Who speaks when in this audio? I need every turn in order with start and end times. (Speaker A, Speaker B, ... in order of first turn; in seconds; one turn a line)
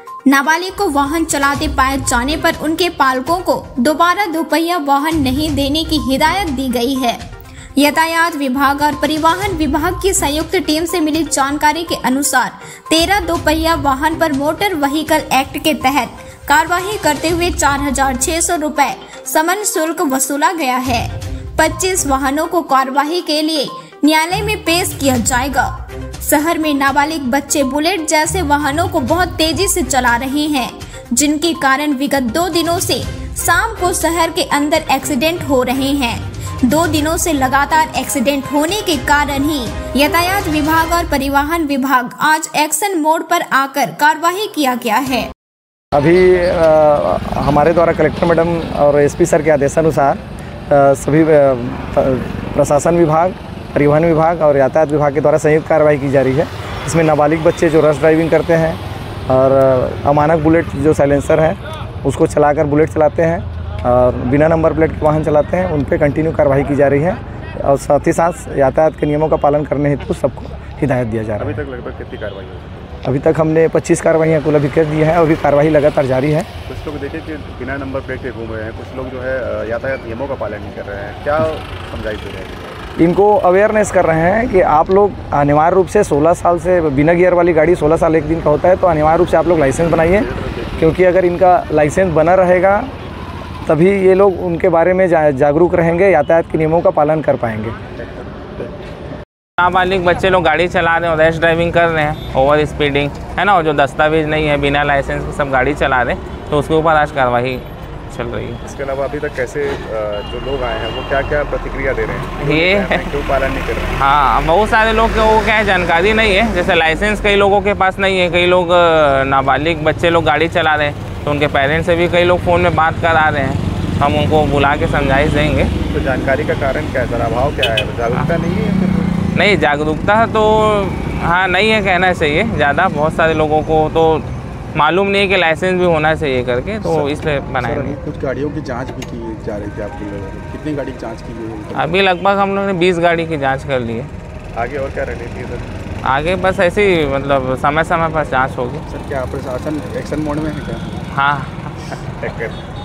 Speaker A: 0.3-7.2
Speaker A: 7.8-45.3
Speaker B: 46.0-71.6
Speaker C: 71.4-72.9
Speaker B: 73.0-76.5
Speaker C: 76.7-82.8
Speaker B: 83.0-90.3
Speaker C: 90.0-90.9
Speaker B: 90.8-92.9
Speaker B: 93.7-97.8
Speaker C: 98.0-98.7
Speaker D: 99.6-108.6
Speaker C: 108.7-114.0
Speaker D: 112.4-113.1
Speaker D: 114.0-125.7
Speaker C: 125.9-129.2
Speaker D: 129.3-138.0
Speaker E: 136.8-142.0
Speaker D: 141.8-144.1
Speaker C: 144.6-145.7
Speaker D: 146.0-148.8
Speaker E: 148.9-151.1
Speaker D: 151.1-152.0
Speaker C: 152.1-152.6